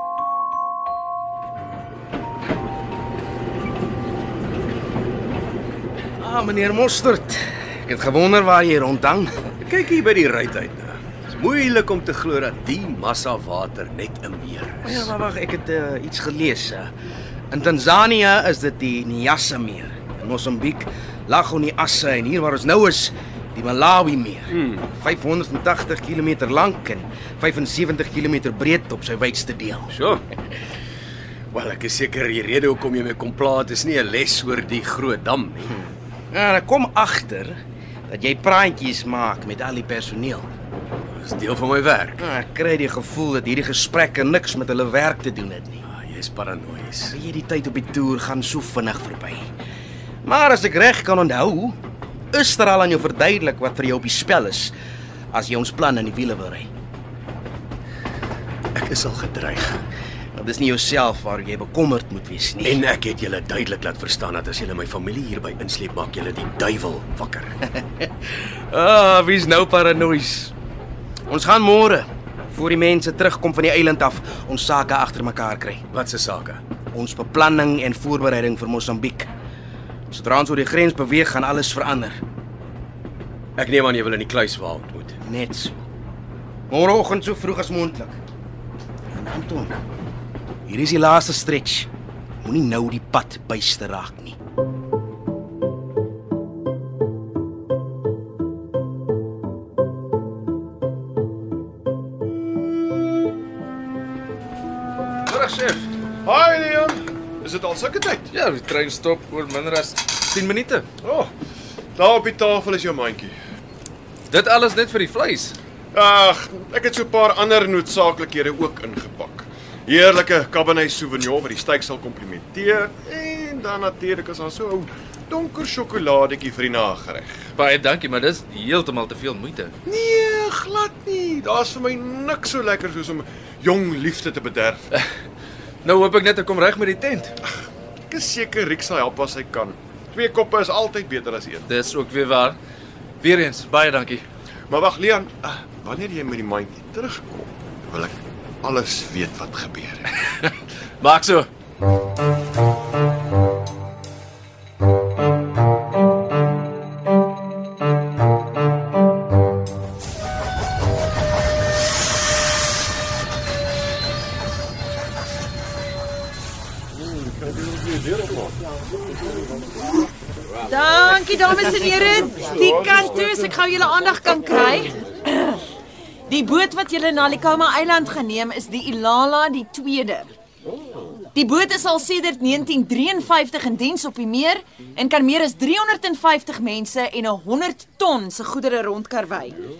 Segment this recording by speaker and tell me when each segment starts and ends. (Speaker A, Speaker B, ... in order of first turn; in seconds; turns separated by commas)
Speaker A: 6.2-9.4, Speaker B: 9.6-15.1, Speaker A: 14.8-16.9, Speaker A: 17.5-30.0, Speaker B: 24.5-24.9, Speaker B: 29.9-30.2, Speaker B: 31.5-35.8, Speaker A: 35.9-40.5, Speaker B: 41.1-42.2, Speaker A: 42.2-45.8, Speaker B: 45.8-47.2, Speaker A: 47.1-49.5, Speaker A: 50.2-51.8, Speaker A: 52.3-54.7, Speaker A: 55.3-56.7, Speaker B: 58.7-59.8, Speaker A: 60.4-62.8, Speaker B: 62.6-67.6, Speaker A: 67.7-70.5, Speaker A: 71.3-75.8, Speaker B: 75.9-76.6, Speaker A: 76.9-79.3, Speaker A: 80.1-82.2, Speaker B: 83.6-85.2, Speaker A: 85.2-85.8, Speaker A: 86.7-88.2, Speaker A: 89.1-89.8, Speaker A: 90.7-91.9, Speaker A: 92.4-94.3, Speaker C: 105.3-105.9, Speaker D: 106.2-108.3, Speaker C: 108.3-110.8, Speaker D: 111.0-111.3, Speaker D: 112.0-113.3, Speaker C: 114.3-115.5, Speaker D: 115.9-127.5, Speaker C: 127.6-129.7, Speaker D: 129.8-134.9, Speaker C: 135.8-137.3, Speaker D: 138.1-141.7, Speaker C: 141.7-142.6, Speaker C: 143.2-144.2, Speaker D: 144.7-150.1, Speaker C: 150.5-151.5, Speaker D: 166.9-168.6, Speaker E: 170.6-175.6, Speaker D: 172.5-173.2, Speaker E: 176.3-180.3, Speaker E: 181.3-189.6